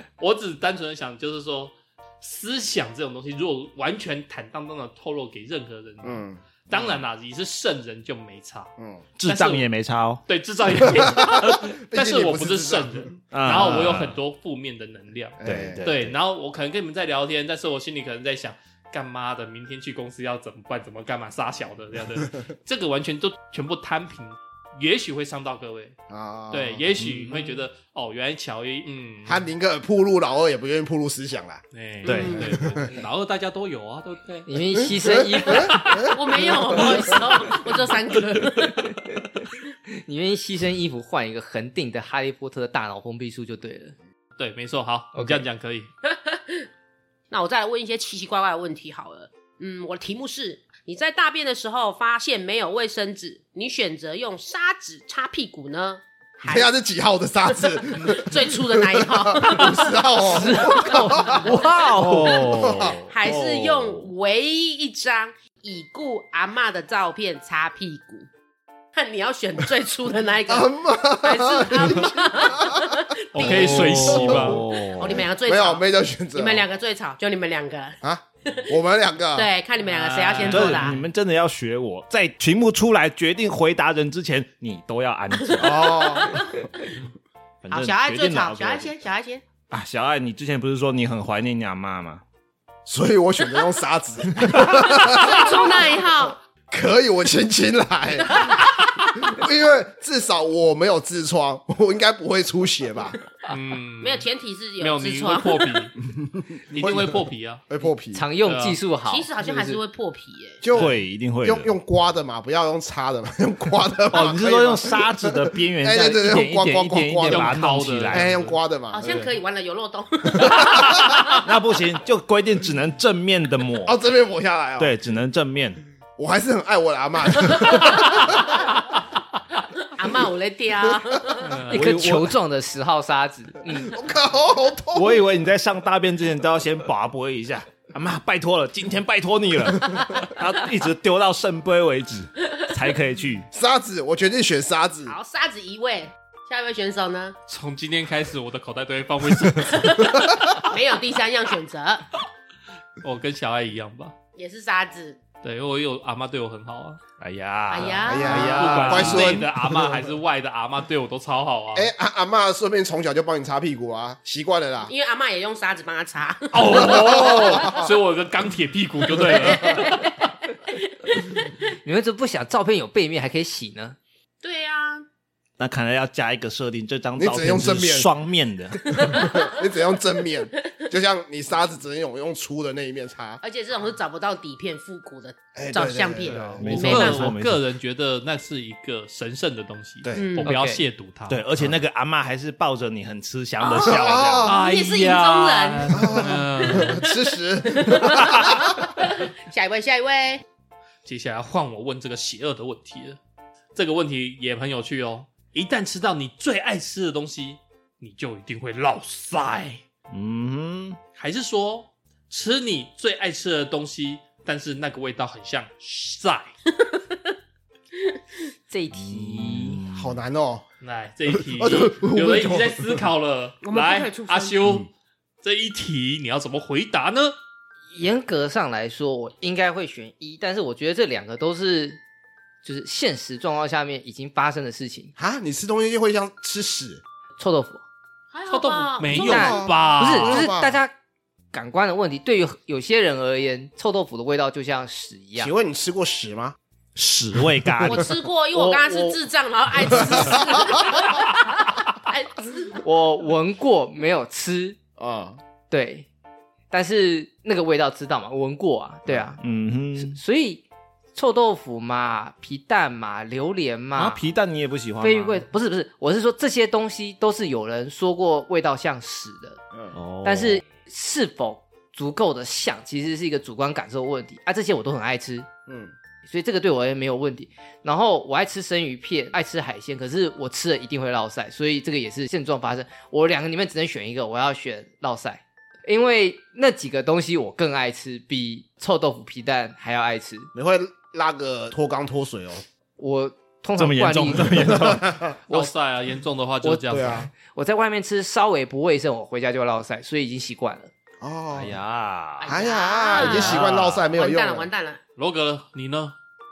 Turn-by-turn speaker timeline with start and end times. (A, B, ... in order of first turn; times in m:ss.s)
0:00.2-0:08.7 A
0:06.0-0:06.4 B
0:08.8-0:09.0 B
0:09.2-0:10.2 C
0:09.2-0:09.7 A
0:10.3-0:26.0 A
0:10.8-0:13.8 B
0:13.3-0:14.2 C
0:15.4-0:15.9 B
0:15.4-0:16.1 C
0:26.1-0:26.8 B
0:26.5-0:29.4 A
0:27.0-0:27.3 C
0:29.3-0:31.6 B
0:31.7-0:34.5 A
0:32.0-0:32.4 C
0:32.0-0:32.5 D
0:32.4-0:32.9 B
0:34.5-0:35.9 E
0:34.8-0:37.0 B
0:35.6-0:36.1 A
0:36.1-0:39.0 D
0:40.0-0:44.0 E
0:44.4-0:45.9 A
0:45.2-0:45.4 E
0:46.0-0:46.7 D
0:47.3-0:56.7 D
0:56.4-1:01.4 B
0:57.6-1:08.3 D
1:00.2-1:02.4 E
1:01.4-1:04.1 C
1:02.2-1:03.0 B
1:08.9-1:15.8 D
1:10.5-1:16.6 B
1:13.4-1:14.6 A
1:13.5-1:15.2 C
1:16.3-1:18.0 D
1:18.0-1:19.5 B
1:19.4-1:21.0 D
1:19.8-1:21.0 A
1:20.4-1:26.0 C
1:25.6-1:26.7 D
1:25.6-1:26.4 B
1:27.6-1:28.9 C
1:27.7-1:29.4 D
1:29.7-1:32.2 C
1:32.9-1:35.8 B
1:34.9-1:36.4 D
1:36.7-1:43.2 B
1:38.2-1:39.0 D
1:43.5-1:44.3 A
1:44.0-1:45.8 D
1:44.8-1:45.9 A
1:46.1-1:48.3 B
1:46.7-1:47.6 A
1:48.1-1:49.8 E
1:48.4-1:48.8 A
1:49.1-1:50.7 D
1:50.6-1:57.6 B
1:50.7-1:51.7 C
1:54.1-1:58.4 C
1:57.3-1:59.4 A
1:58.1-1:59.2 B
1:58.9-2:01.4 D
2:00.3-2:01.2 B
2:01.4-2:04.0 C
2:03.8-2:04.9 B
2:04.8-2:05.8 C
2:06.2-2:08.6 B
2:07.5-2:08.1 D
2:10.0-2:11.6 D
2:10.9-2:11.4 B
2:11.4-2:11.9 A
2:11.7-2:14.0 E
2:11.7-2:12.3 C
2:13.7-2:15.2 B
2:14.9-2:23.5 C
2:23.5-2:25.2 B
2:25.1-2:27.4 D
2:27.5-2:30.1 A
2:29.7-2:32.1 D
2:33.0-2:34.2 A
2:34.4-2:35.2 D
2:35.4-2:37.0 A
2:37.2-2:39.5 C
2:37.7-2:39.1 D
2:38.0-2:39.6 B
2:38.4-2:41.9 A
2:41.8-2:44.9 B
2:44.8-2:47.8 D
2:46.5-2:50.1 A
2:46.7-2:47.9 B
2:49.3-2:50.1 D
2:50.7-2:51.4 D
2:51.8-2:54.0 E
2:54.4-2:55.1 D
2:55.6-2:59.0 C
2:57.2-2:58.1 B
2:58.9-3:03.4 B
2:59.0-2:59.6 D
3:03.4-3:07.4 D
3:05.6-3:06.8 B
3:06.3-3:11.4 A
3:06.6-3:07.6 C
3:10.0-3:10.3 B
3:10.2-3:10.5 D
3:10.4-3:10.8 E
3:11.3-3:14.5 C
3:13.6-3:17.1 D
3:13.8-3:14.6 B
3:14.4-3:17.0 A
3:15.9-3:18.9 B
3:17.6-3:20.4 D
3:21.0-3:23.2 A
3:23.8-3:29.8 A
3:30.1-3:31.0 C
3:31.2-3:36.5 A
3:38.7-3:39.8 E
3:39.0-3:40.2 C
3:39.9-3:40.6 B
3:40.8-3:44.9 A
3:41.3-3:43.0 B
3:43.6-3:44.6 D
3:45.4-3:47.4 A
3:47.9-3:52.0 E
3:52.6-3:55.1 E
3:55.2-3:57.0 B
3:57.4-3:57.8 E
3:58.3-3:59.6 D
3:58.5-4:00.5 A
3:59.1-4:00.8 B
3:59.1-4:00.9 E
4:01.5-4:05.5 E
4:05.4-4:06.6 B
4:07.0-4:08.1 C
4:07.8-4:12.8 D
4:08.5-4:09.2 E
4:10.0-4:10.8 B
4:12.8-4:14.8 E
4:15.0-4:15.4 B
4:15.7-4:16.1 E
4:16.7-4:19.4 E
4:19.4-4:20.2 C
4:20.0-4:20.6 E
4:21.2-4:24.3 E
4:24.0-4:25.5 C
4:25.0-4:29.6 E
4:29.9-4:30.6 C
4:30.2-4:35.5 E
4:35.7-4:35.9 B
4:36.3-4:50.5 E
4:50.6-4:52.6 B
4:53.0-4:54.8 E
4:53.8-4:55.1 C
4:54.6-4:55.3 B
4:55.5-4:57.3 A
4:56.6-5:00.9 E
4:56.9-4:57.3 B
5:01.2-5:01.8 B
5:01.5-5:02.6 C
5:02.4-5:04.7 B
5:02.4-5:05.0 D
5:03.1-5:04.1 C
5:05.2-5:06.2 A